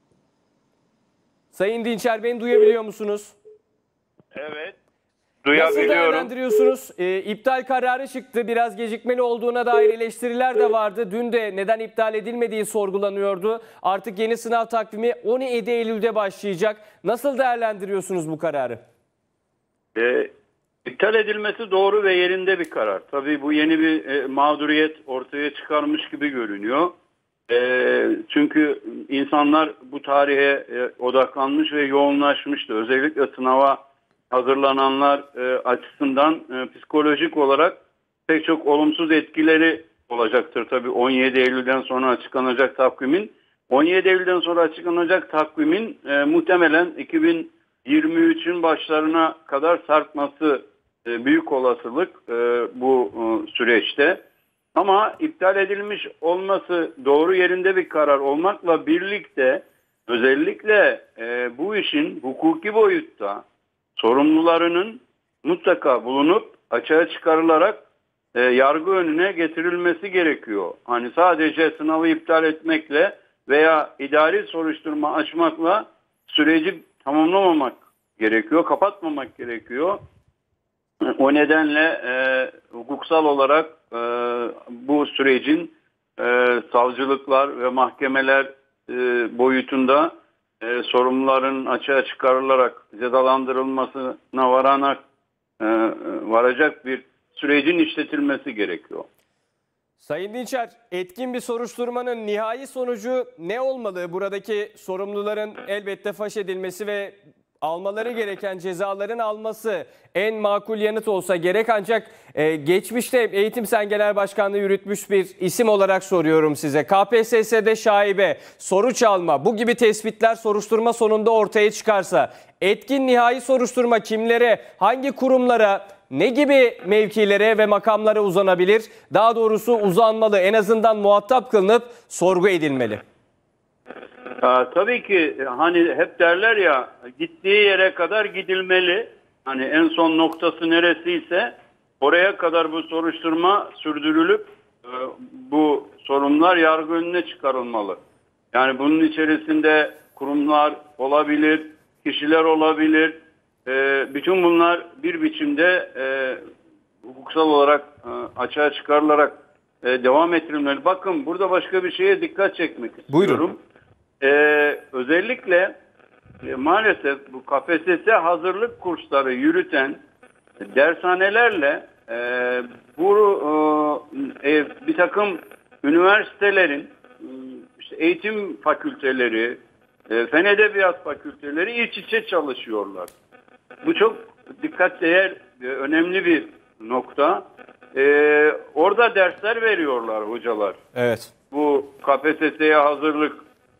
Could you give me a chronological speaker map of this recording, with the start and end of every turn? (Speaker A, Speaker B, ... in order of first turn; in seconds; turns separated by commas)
Speaker A: 1.5-3.3, Speaker B: 4.3-4.8, Speaker B: 5.4-6.3, Speaker A: 5.5-18.8, Speaker B: 19.9-20.3, Speaker B: 20.9-26.9, Speaker B: 27.5-54.2, Speaker B: 54.7-63.4, Speaker B: 64.0-67.8, Speaker B: 68.3-80.0, Speaker B: 81.2-95.0, Speaker B: 95.6-99.0, Speaker A: 100.0-133.0, Speaker B: 134.4-148.0, Speaker B: 148.5-156.4, Speaker B: 157.0-163.6, Speaker A: 163.1-163.4, Speaker B: 164.2-165.7, Speaker B: 166.4-170.0, Speaker B: 170.6-183.1, Speaker B: 183.8-190.8, Speaker A: 190.9-191.3, Speaker B: 191.5-193.4